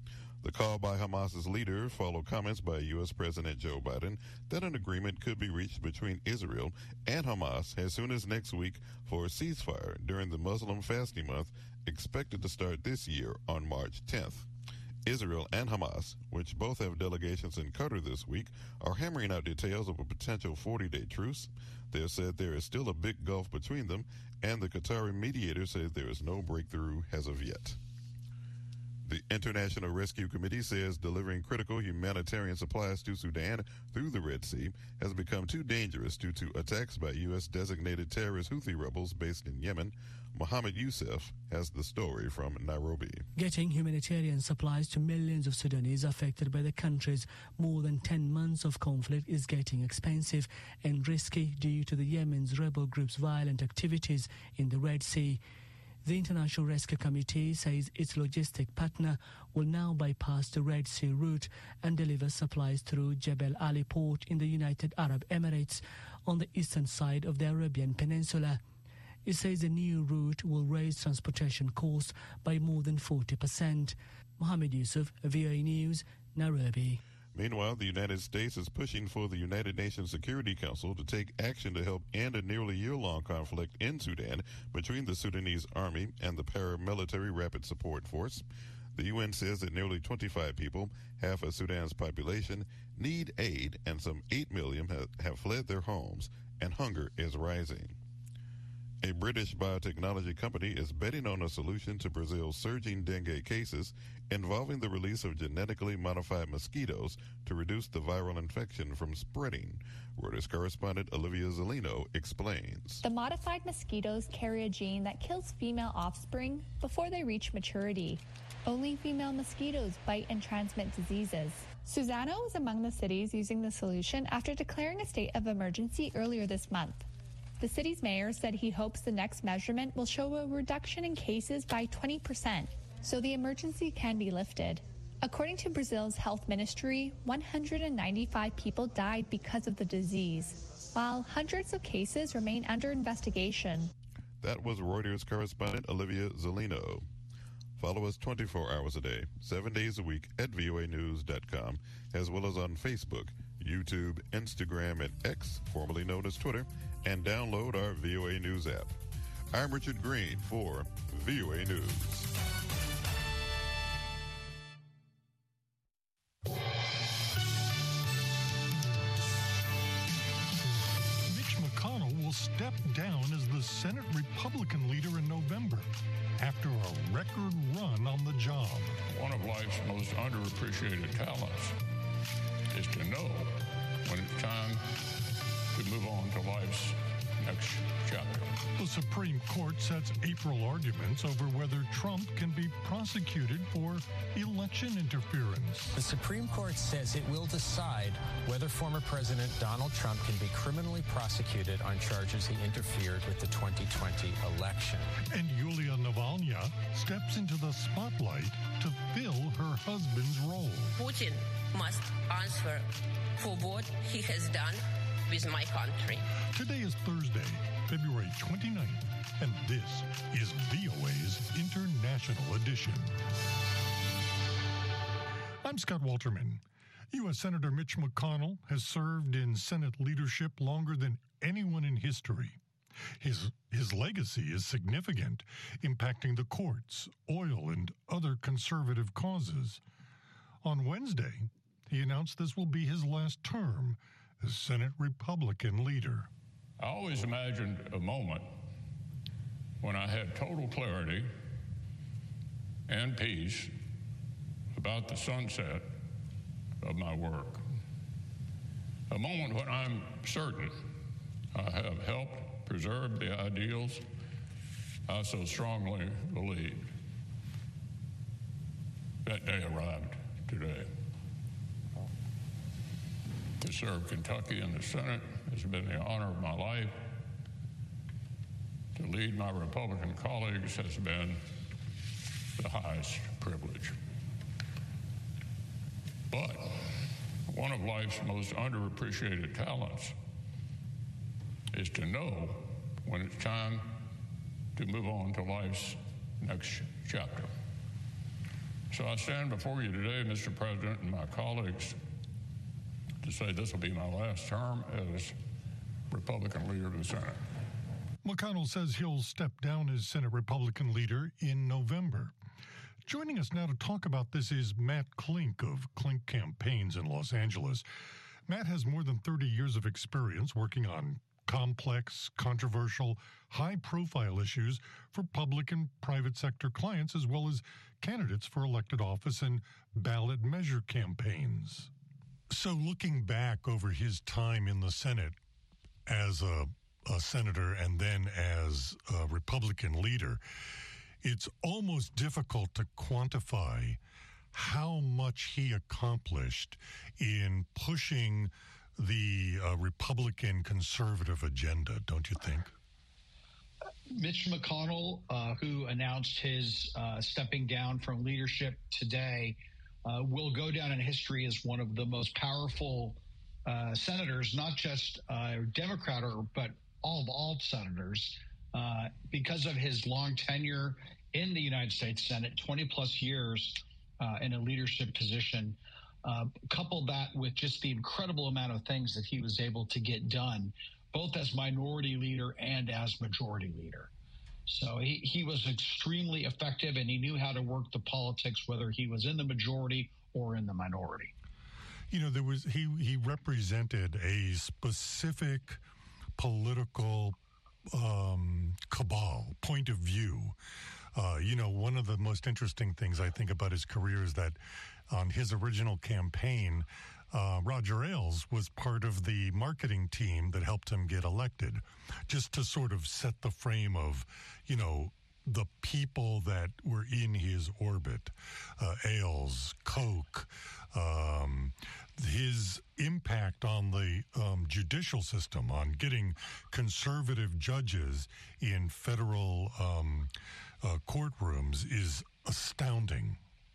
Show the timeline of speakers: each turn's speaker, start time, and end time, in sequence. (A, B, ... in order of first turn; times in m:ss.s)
0:00.4-0:14.5 A
0:15.0-0:27.8 A
0:29.0-0:43.3 A
0:43.4-0:55.4 B
0:56.0-1:08.6 B
1:09.2-1:17.0 B
1:17.3-1:38.0 A
1:39.0-1:53.0 A
1:53.0-2:07.0 C
2:07.6-2:23.9 C
2:24.4-2:27.0 A
2:27.8-2:39.0 A
2:39.5-2:42.3 A
2:51.3-2:59.0 D
2:59.1-3:01.8 E
3:02.7-3:04.9 E
3:05.7-3:08.6 E
3:08.8-3:15.9 D
3:15.9-3:25.1 F
3:25.3-3:31.0 D
3:31.0-3:32.8 G
3:33.4-3:36.2 G
3:36.5-3:43.2 D
3:45.6-3:52.6 D
3:53.2-3:59.8 D
4:00.6-4:06.3 D
4:06.8-4:08.5 E
4:09.8-4:11.3 E
4:12.9-4:13.7 E
4:14.7-4:15.9 E
4:16.8-4:17.6 E
4:19.1-4:20.8 E
4:21.5-4:24.0 E
4:25.1-4:26.9 E
4:29.2-4:30.9 E
4:33.6-4:37.1 E
4:38.9-4:41.4 E
4:42.6-4:44.0 E
4:46.3-4:50.2 E
4:51.7-4:54.0 E
4:54.7-4:57.5 E
4:58.9-5:02.0 E
5:03.2-5:05.4 E
5:06.1-5:07.4 E
5:08.2-5:12.3 D
5:13.0-5:17.8 D
5:18.5-5:31.9 D
5:32.5-5:35.4 D
5:36.0-5:40.4 D
5:41.2-5:44.0 D
5:44.5-5:52.7 D
5:54.1-6:24.1 H
6:24.6-6:31.3 H
6:32.1-6:35.8 D
6:36.4-6:37.4 D
6:37.9-6:40.6 D
6:41.1-6:44.6 D
6:45.1-7:13.4 D